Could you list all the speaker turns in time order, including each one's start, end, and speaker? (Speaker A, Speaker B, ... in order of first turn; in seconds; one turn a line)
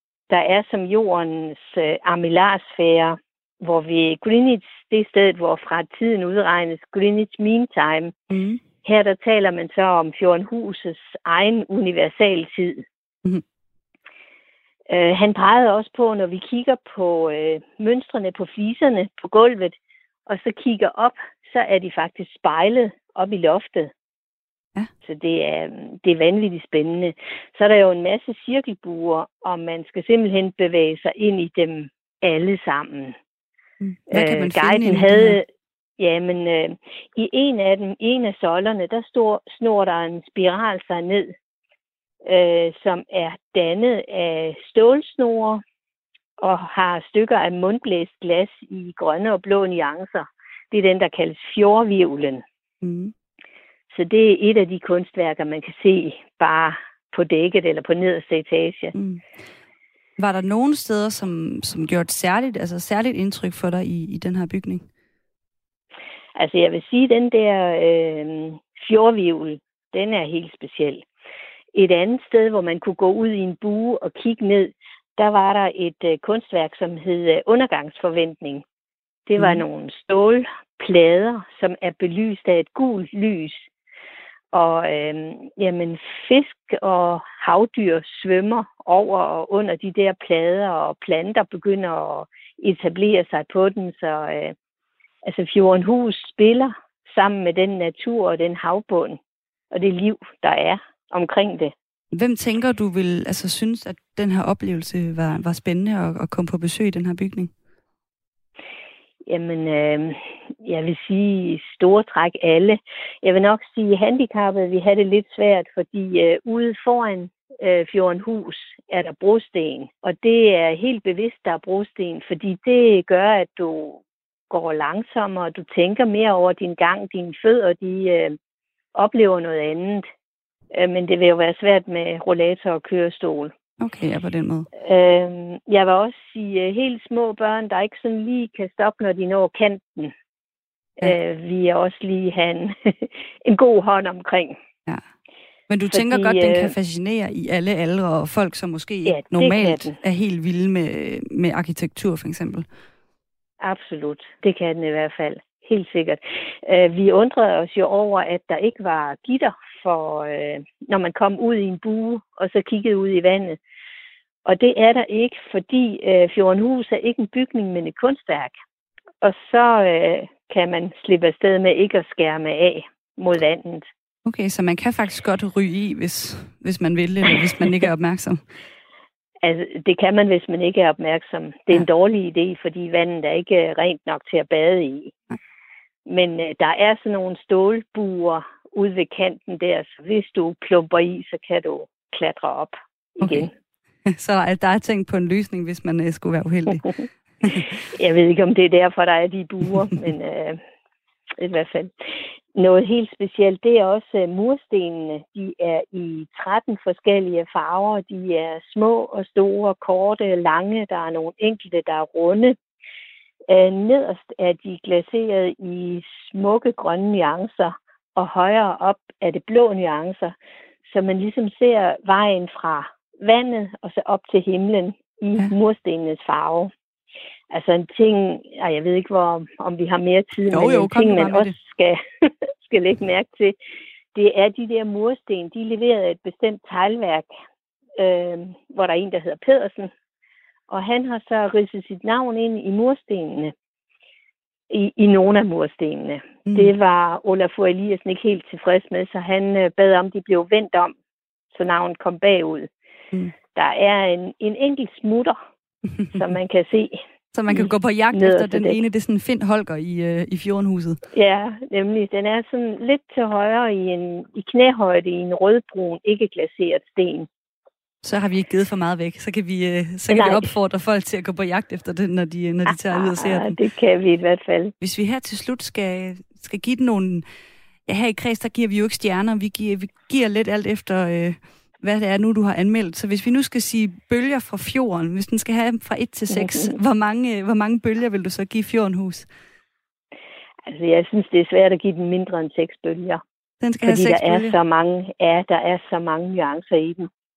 Speaker A: 0.3-8.1
Speaker B: 8.3-8.6
Speaker A: 8.8-12.8
Speaker A: 14.9-19.8
Speaker A: 20.3-23.9
Speaker A: 25.0-33.1
Speaker B: 33.8-35.4
Speaker A: 34.1-35.5
Speaker A: 36.0-41.3
Speaker A: 42.2-45.6
Speaker A: 46.4-52.4
Speaker B: 52.8-53.1
Speaker A: 53.9-58.9
Speaker B: 58.9-59.2
Speaker B: 60.2-64.8
Speaker A: 66.3-71.0
Speaker A: 71.7-78.6
Speaker A: 79.3-83.7
Speaker A: 84.5-94.5
Speaker A: 95.2-99.2
Speaker A: 99.7-101.7
Speaker B: 102.1-107.5
Speaker A: 109.3-124.0
Speaker A: 124.5-128.4
Speaker A: 128.9-130.1
Speaker A: 130.7-133.5
Speaker B: 133.8-134.7
Speaker A: 134.8-140.1
Speaker A: 141.0-144.6
Speaker B: 145.7-152.7
Speaker A: 145.9-146.7
Speaker A: 149.1-149.9
Speaker A: 153.6-163.6
Speaker A: 164.4-168.5
Speaker A: 169.2-173.9
Speaker B: 174.2-178.4
Speaker A: 179.4-185.1
Speaker A: 186.1-193.5
Speaker B: 193.2-193.5
Speaker B: 194.1-197.0
Speaker A: 197.9-200.6
Speaker A: 201.4-201.9
Speaker A: 202.6-212.6
Speaker A: 213.5-220.3
Speaker A: 220.9-226.7
Speaker A: 227.5-233.6
Speaker B: 230.5-231.5
Speaker A: 234.1-237.3
Speaker A: 238.0-239.9
Speaker A: 240.7-243.5
Speaker A: 244.7-250.9
Speaker B: 246.5-246.7
Speaker A: 251.5-252.7
Speaker A: 253.5-255.4
Speaker A: 256.1-257.0
Speaker B: 257.3-261.0
Speaker A: 257.5-258.8
Speaker A: 261.1-267.3
Speaker B: 268.0-273.6
Speaker A: 270.1-270.4
Speaker A: 272.7-274.7
Speaker B: 274.8-277.2
Speaker B: 277.9-289.3
Speaker A: 286.3-286.7
Speaker A: 290.7-293.2
Speaker B: 293.6-294.6
Speaker A: 293.8-297.1